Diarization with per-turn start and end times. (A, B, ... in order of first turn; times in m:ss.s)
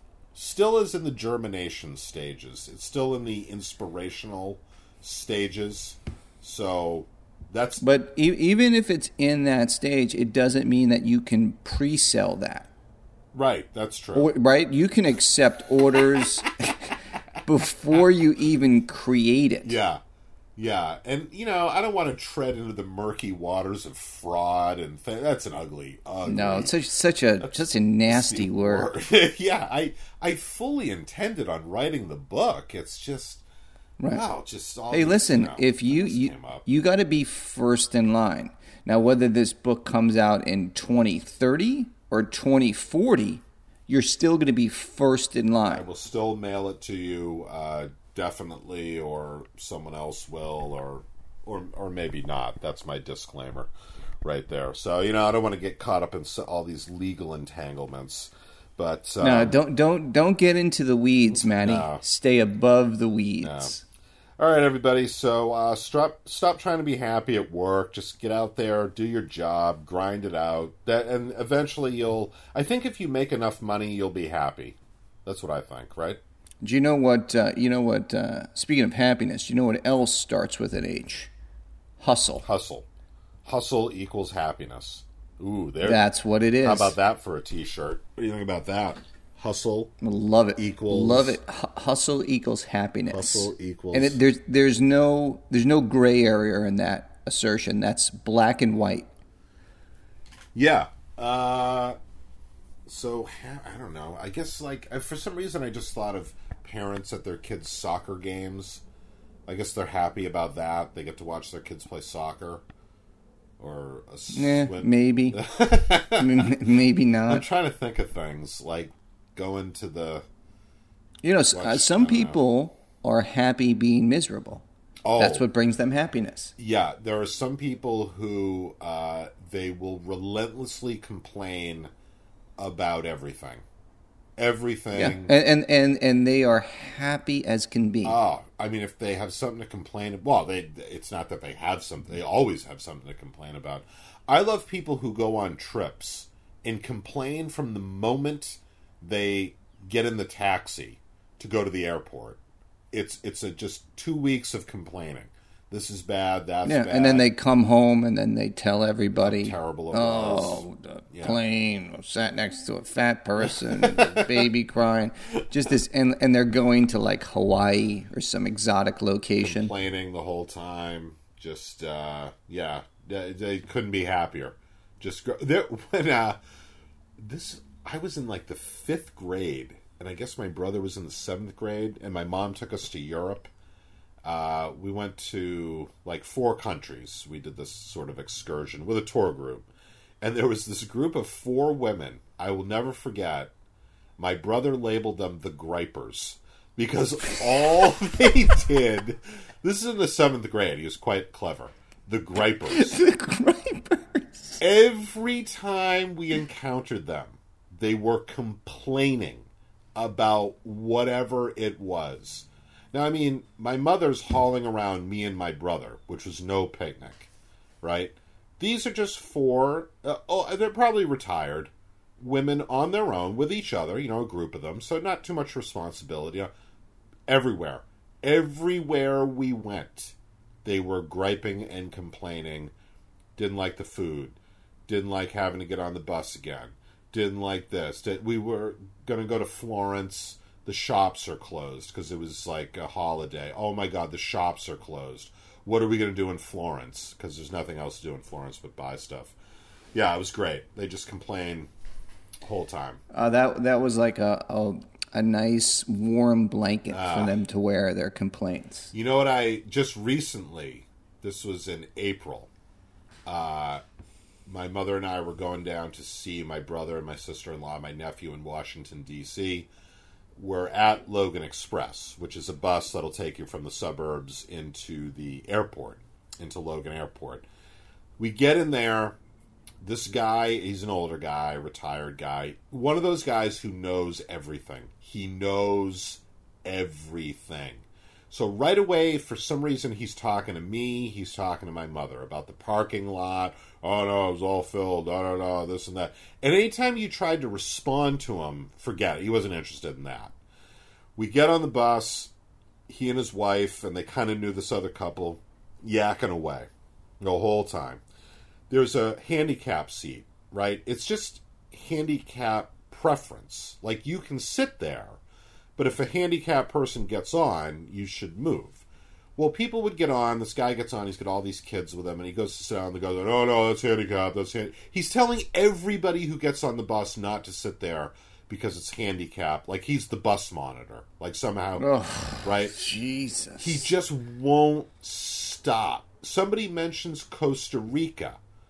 0:00.4-0:07.8 A
0:07.8-0:12.7 B
0:13.3-0:14.3 A
0:14.2-0:16.9 B
0:17.4-0:19.8 B
0:19.6-0:20.0 A
0:20.6-0:26.8 A
0:26.3-0:28.9 B
0:27.4-0:33.4 A
0:34.0-0:34.2 B
0:34.1-0:36.6 A
0:34.9-0:45.8 B
0:45.7-0:53.7 A
0:54.2-0:59.6 A
0:59.2-1:03.8 B
1:01.3-1:02.0 A
1:03.4-1:03.8 A
1:04.4-1:16.2 A
1:16.6-1:21.3 B
1:22.0-1:22.4 B
1:22.4-1:22.9 A
1:23.4-1:26.0 A
1:25.8-1:27.0 B
1:26.6-1:29.9 A
1:30.0-1:39.1 B
1:30.6-1:31.4 A
1:33.1-1:34.2 A
1:40.6-1:42.0 A
1:42.9-1:48.8 A
1:49.5-1:52.6 A
1:53.6-1:56.5 A
1:54.3-1:55.4 B
1:56.1-1:57.5 B
1:57.3-2:00.3 A
2:01.2-2:04.6 B
2:01.5-2:02.4 A
2:05.0-2:05.5 A
2:05.2-2:06.5 B
2:06.6-2:11.9 A
2:12.6-2:13.6 A
2:14.4-2:15.3 A
2:14.9-2:18.2 B
2:18.0-2:32.4 A
2:32.9-2:37.3 A
2:36.6-2:49.7 B
2:39.2-2:41.4 A
2:43.4-2:44.5 A
2:49.4-2:56.4 A
2:57.2-3:03.5 A
3:04.2-3:09.7 A
3:10.2-3:13.5 A
3:14.2-3:23.0 A
3:22.7-3:24.6 B
3:24.6-3:37.3 A
3:37.8-3:46.5 A
3:47.3-3:52.7 A
3:53.4-4:09.4 A
4:09.9-4:11.7 A
4:12.4-4:13.0 A
4:13.1-4:18.9 B
4:16.9-4:17.4 A
4:18.9-4:22.5 A
4:23.3-4:23.8 A
4:24.5-4:29.7 A
4:30.4-4:37.5 A
4:38.2-4:39.2 A
4:39.8-5:00.3 A
5:01.2-5:02.3 A
5:02.9-5:08.0 A
5:08.7-5:15.2 A
5:15.8-5:18.8 A
5:19.4-5:31.9 A
5:31.8-5:33.9 B
5:32.4-5:32.8 A
5:33.6-5:38.4 A